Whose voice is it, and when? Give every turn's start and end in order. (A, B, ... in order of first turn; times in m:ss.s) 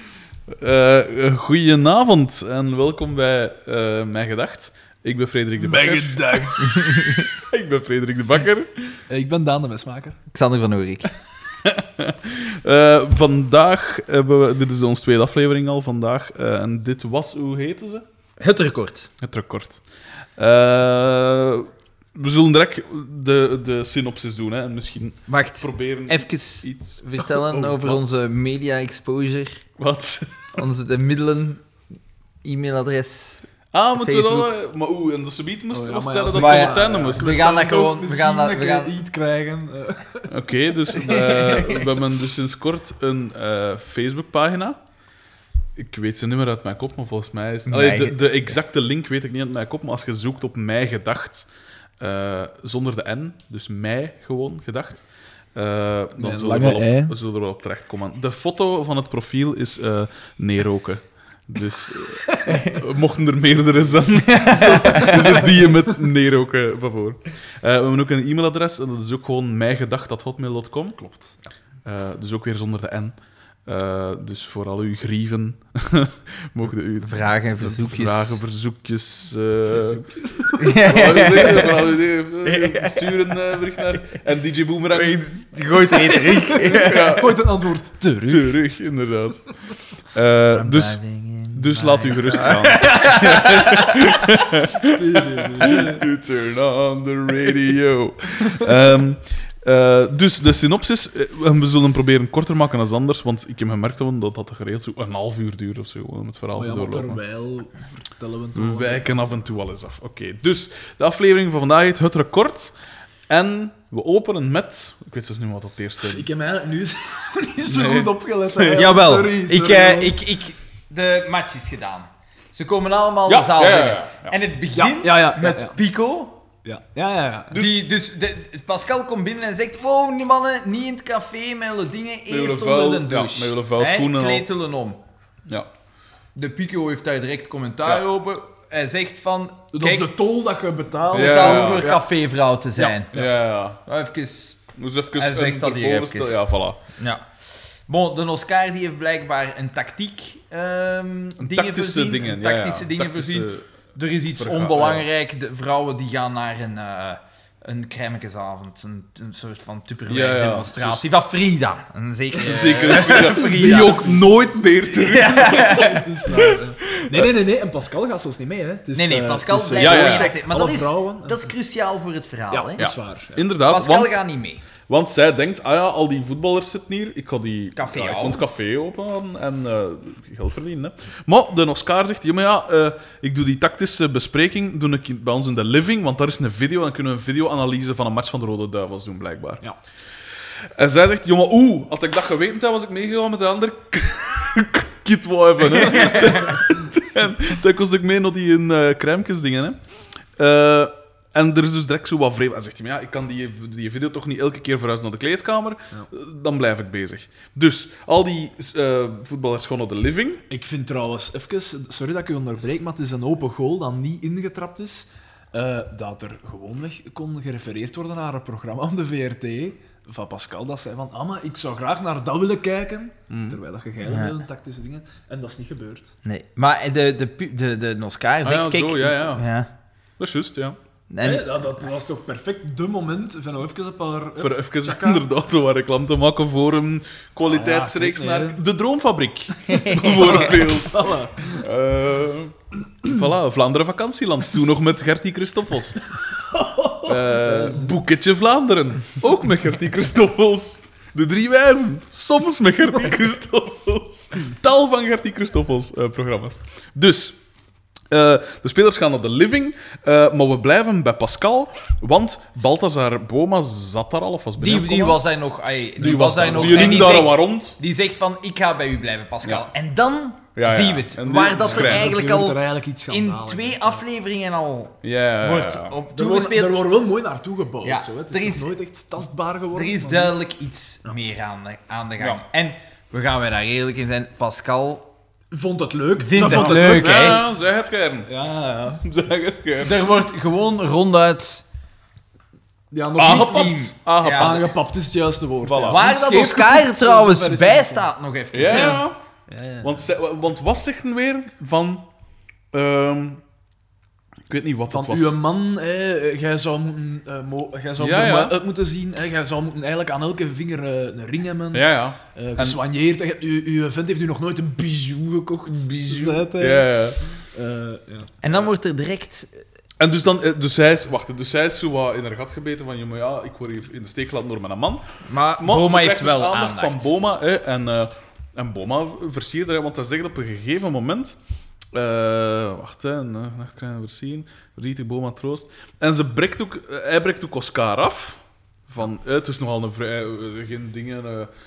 0:00.5-0:06.5 A
0:05.6-0:06.8 B
0:06.6-0:07.3 C
0:07.2-0:09.0 A
0:09.1-0:10.2 B
0:10.3-0:11.1 C
0:11.6-0:18.0 A
0:18.4-0:19.1 C
0:19.2-0:19.8 A
0:20.4-0:28.2 A
0:25.3-0:29.6 C
0:29.8-0:30.3 A
0:30.5-0:31.6 C
0:32.4-0:34.5 C
0:33.7-0:37.4 A
0:35.7-0:40.3 B
0:36.3-0:39.0 C
0:40.3-0:44.8 A
0:40.9-0:41.4 B
0:41.0-0:41.9 C
0:45.8-0:51.4 A
0:47.6-0:48.2 C
0:52.0-0:55.0 A
0:55.5-1:11.0 A
0:56.2-0:57.1 B
1:02.4-1:02.8 C
1:04.2-1:05.4 C
1:05.0-1:06.0 B
1:11.0-1:11.4 B
1:11.8-1:20.0 A
1:17.0-1:18.4 C
1:19.7-1:20.8 B
1:20.6-1:23.4 C
1:20.6-1:25.2 A
1:24.9-1:27.2 C
1:25.9-1:28.6 B
1:26.5-1:27.4 A
1:28.3-1:29.5 A
1:30.1-1:31.0 A
1:30.5-1:34.2 C
1:31.5-1:47.2 A
1:34.9-1:36.0 B
1:46.5-1:49.3 B
1:48.5-1:52.7 A
1:53.3-1:56.3 A
1:56.0-2:00.2 B
1:57.7-1:58.8 A
1:58.7-2:06.4 C
2:03.3-2:04.3 A
2:04.8-2:05.8 B
2:06.6-2:07.6 B
2:07.5-2:15.0 C
2:12.3-2:14.5 A
2:16.3-2:20.1 C
2:19.7-2:22.0 B
2:21.1-2:21.9 A
2:21.1-2:23.1 C
2:22.8-2:23.3 B
2:23.1-2:23.8 A
2:23.8-2:24.6 C
2:24.8-2:26.8 A
2:25.1-2:26.4 C
2:27.0-2:27.2 C
2:27.9-2:44.2 C
2:31.4-2:33.7 A
2:34.3-2:35.1 A
2:40.1-2:41.2 A
2:42.4-2:47.3 A
2:42.9-2:44.0 B
2:44.9-2:46.1 C
2:45.3-2:51.5 B
2:48.9-2:52.8 C
2:49.8-2:50.3 A
2:52.5-2:53.4 B
2:52.8-2:54.2 A
2:53.7-2:54.6 C
2:54.9-3:09.6 A
2:57.8-2:58.4 C
3:10.6-3:19.8 A
3:15.9-3:16.6 C
3:20.4-3:30.4 A
3:30.5-3:46.1 B
3:43.3-3:43.6 A
3:44.0-3:44.4 C
3:46.2-3:49.7 C
3:48.4-3:49.4 A
3:50.2-3:50.8 A
3:51.1-3:51.5 C
3:51.2-3:55.2 B
3:54.4-4:06.0 A
3:57.4-3:58.6 B
3:59.6-4:00.6 C
4:00.1-4:01.7 B
4:06.3-4:07.9 B
4:07.0-4:17.4 A
4:18.1-4:25.2 A
4:24.6-4:36.8 C
4:26.0-4:27.8 A
4:26.5-4:27.1 B
4:30.5-4:32.2 A
4:31.5-4:34.0 B
4:35.0-4:36.0 A
4:36.1-4:40.3 B
4:37.8-4:38.7 C
4:39.7-4:45.1 C
4:45.5-4:47.4 B
4:46.2-4:47.4 C
4:46.4-4:50.0 A
4:48.2-4:49.0 B
4:49.8-4:51.6 C
4:52.9-4:58.1 B
4:53.2-4:54.7 A
4:53.5-4:54.7 C
4:55.6-4:56.0 A
4:55.9-4:59.0 C
4:58.5-4:59.2 A
4:58.7-5:00.0 B
4:59.8-5:02.0 A
5:02.7-5:03.4 A
5:04.5-5:05.3 A
5:04.9-5:18.3 B
5:08.0-5:08.6 A
5:11.7-5:12.8 A
5:15.7-5:17.2 A
5:18.4-5:19.6 C
5:20.0-5:25.0 A
5:25.2-5:27.1 C
5:25.6-5:31.4 A
5:31.9-5:41.5 A